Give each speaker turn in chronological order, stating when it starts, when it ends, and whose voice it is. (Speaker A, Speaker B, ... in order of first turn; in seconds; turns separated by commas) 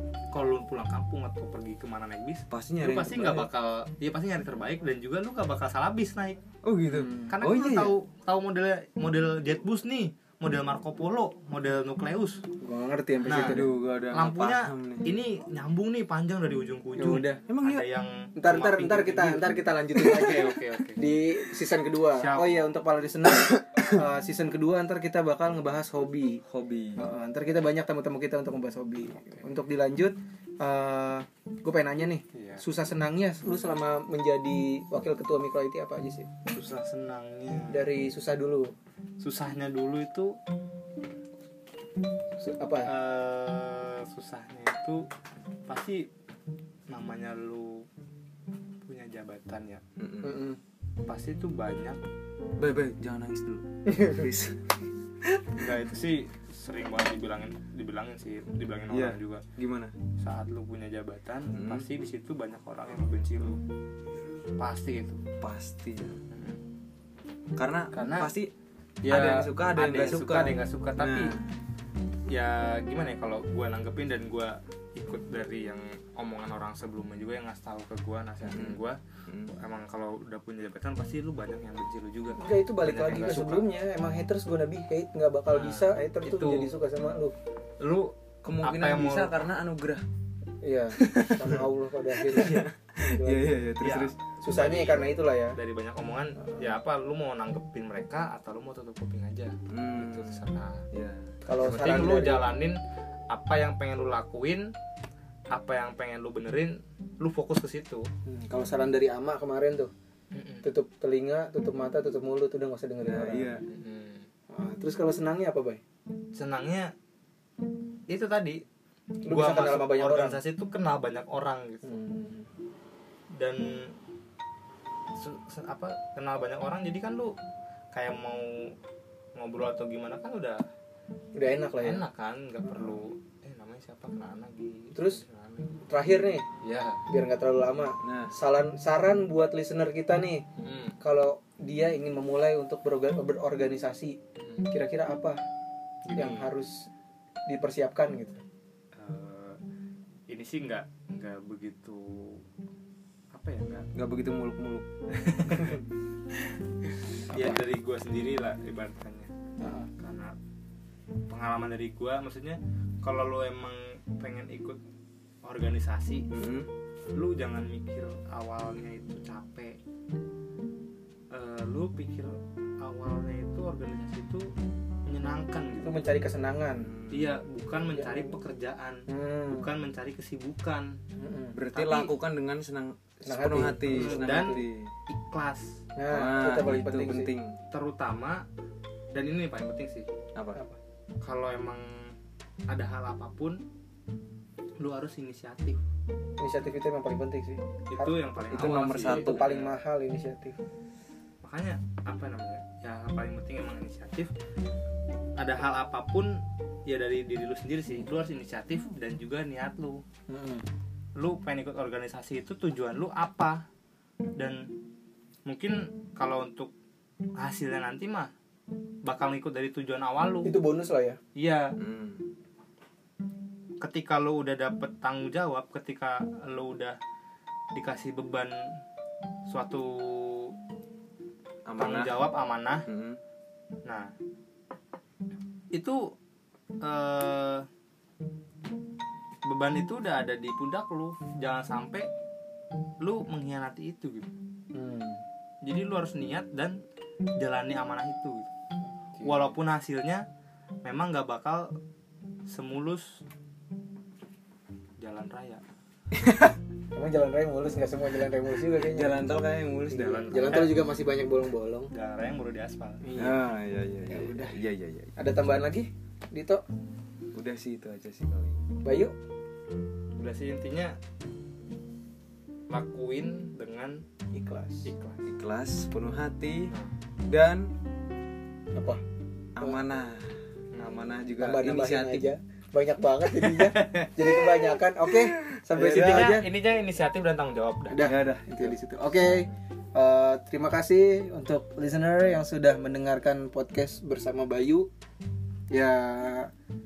Speaker A: 0.3-6.4, Speaker B: 2.5-3.5, Speaker B: 6.6-8.0, Speaker C: 6.9-7.3, Speaker A: 7.3-12.4, Speaker C: 12.6-13.7, Speaker B: 13.2-15.1, Speaker A: 13.3-21.0, Speaker C: 17.0-17.4, Speaker B: 17.5-17.9, Speaker C: 18.4-26.4, Speaker A: 22.1-22.6, Speaker B: 23.6-23.9, Speaker B: 26.4-27.0, Speaker C: 27.0-36.3, Speaker A: 32.3-32.6, Speaker A: 36.5-37.9, Speaker C: 37.7-38.7, Speaker A: 39.2-40.4, Speaker C: 42.4-42.9, Speaker A: 42.8-45.1, Speaker A: 45.7-46.1, Speaker A: 46.9-47.9, Speaker A: 48.8-49.8, Speaker B: 50.0-50.4, Speaker C: 50.2-50.6, Speaker A: 51.0-52.0, Speaker B: 52.6-54.7, Speaker B: 55.2-55.6, Speaker A: 55.5-59.4, Speaker B: 58.9-59.9, Speaker A: 60.2-63.6, Speaker B: 61.5-61.9, Speaker A: 64.5-65.2, Speaker B: 65.4-66.2, Speaker A: 66.3-66.6, Speaker B: 67.5-68.5, Speaker A: 67.9-68.3, Speaker A: 69.0-71.3, Speaker B: 69.0-71.5, Speaker A: 72.3-79.0, Speaker B: 78.4-79.5, Speaker A: 79.5-83.7, Speaker C: 82.4-87.3, Speaker A: 85.5-86.7, Speaker A: 87.8-89.4, Speaker B: 88.4-90.0, Speaker C: 90.6-93.5, Speaker B: 92.2-94.2, Speaker A: 92.3-92.6, Speaker A: 93.8-100.8, Speaker C: 94.4-95.6, Speaker B: 99.7-101.3, Speaker C: 101.4-102.5, Speaker A: 101.6-102.8, Speaker A: 103.3-104.7, Speaker A: 105.5-108.1, Speaker C: 108.2-109.9, Speaker A: 110.3-110.7, Speaker C: 110.6-113.6, Speaker B: 113.0-113.6, Speaker A: 113.7-114.3, Speaker C: 114.5-115.8, Speaker A: 116.3-116.9, Speaker A: 118.1-118.6, Speaker C: 119.2-120.4, Speaker A: 119.3-122.0, Speaker C: 121.8-122.5, Speaker A: 123.3-124.0, Speaker A: 125.1-127.3, Speaker A: 127.9-128.7, Speaker A: 129.3-130.6, Speaker C: 131.3-132.0, Speaker A: 131.8-135.7, Speaker C: 134.9-135.2, Speaker C: 135.8-136.4, Speaker A: 136.6-137.0, Speaker C: 137.1-140.4, Speaker B: 138.0-138.3, Speaker A: 140.6-140.9, Speaker C: 141.0-144.2, Speaker A: 144.4-144.7, Speaker C: 144.7-145.4, Speaker A: 146.1-146.5, Speaker C: 146.1-146.9, Speaker C: 147.5-148.4, Speaker A: 148.9-149.6, Speaker A: 150.3-152.4, Speaker A: 153.3-153.9, Speaker B: 153.9-154.8, Speaker A: 155.1-155.8, Speaker A: 157.3-159.3, Speaker C: 157.3-157.6, Speaker C: 159.6-159.9, Speaker A: 160.0-160.3, Speaker A: 161.3-164.8, Speaker A: 165.4-166.3, Speaker B: 166.3-166.7, Speaker A: 167.1-169.8, Speaker A: 171.3-174.5, Speaker A: 175.1-176.1, Speaker C: 175.8-176.9, Speaker B: 176.8-177.3, Speaker A: 177.1-180.9, Speaker C: 177.9-178.2, Speaker C: 179.1-179.7, Speaker C: 181.2-181.6, Speaker B: 181.5-184.9, Speaker A: 181.7-182.1, Speaker C: 183.2-184.6, Speaker A: 183.9-185.8, Speaker C: 185.9-187.3, Speaker B: 186.1-187.6, Speaker A: 187.7-188.4, Speaker A: 189.1-190.1, Speaker A: 191.2-192.1, Speaker A: 192.7-193.6, Speaker A: 194.8-195.8, Speaker C: 196.4-198.1, Speaker A: 197.9-199.8, Speaker B: 198.5-199.4, Speaker C: 199.0-200.6, Speaker A: 201.4-204.3, Speaker A: 205.4-210.0, Speaker C: 210.3-210.6, Speaker A: 211.2-213.6, Speaker A: 214.4-214.7, Speaker A: 215.4-216.7, Speaker A: 217.3-218.3, Speaker A: 219.0-220.6, Speaker C: 220.4-221.2, Speaker A: 221.3-221.8, Speaker B: 221.8-222.3, Speaker A: 223.8-227.0, Speaker A: 227.7-228.7, Speaker A: 229.5-230.5, Speaker B: 231.7-232.2, Speaker A: 231.8-232.8, Speaker B: 232.9-233.2, Speaker A: 233.8-234.1, Speaker A: 235.7-236.1, Speaker A: 236.8-237.7, Speaker A: 239.4-242.1, Speaker A: 243.0-244.3, Speaker C: 244.7-245.2, Speaker A: 245.6-246.8, Speaker A: 247.3-248.5, Speaker B: 249.2-249.5, Speaker A: 249.2-250.3, Speaker A: 250.8-251.7, Speaker A: 252.5-253.2, Speaker A: 255.0-255.6, Speaker B: 256.1-256.6, Speaker C: 256.9-261.9, Speaker B: 258.7-260.7, Speaker A: 260.0-260.8, Speaker A: 261.9-263.0, Speaker C: 263.0-263.5, Speaker B: 263.1-265.1, Speaker C: 264.1-264.5, Speaker C: 265.1-266.6, Speaker B: 267.3-268.7, Speaker C: 268.8-269.1, Speaker A: 270.2-271.0, Speaker A: 272.7-274.0, Speaker C: 274.3-274.9, Speaker A: 274.8-275.2, Speaker B: 275.2-276.7, Speaker B: 277.3-277.7, Speaker C: 278.7-279.0, Speaker B: 279.6-282.3, Speaker A: 280.7-281.1, Speaker C: 281.4-286.5, Speaker A: 283.4-284.3, Speaker B: 285.2-286.4, Speaker A: 285.8-288.1, Speaker C: 287.9-294.9, Speaker B: 288.0-288.8, Speaker C: 295.7-296.5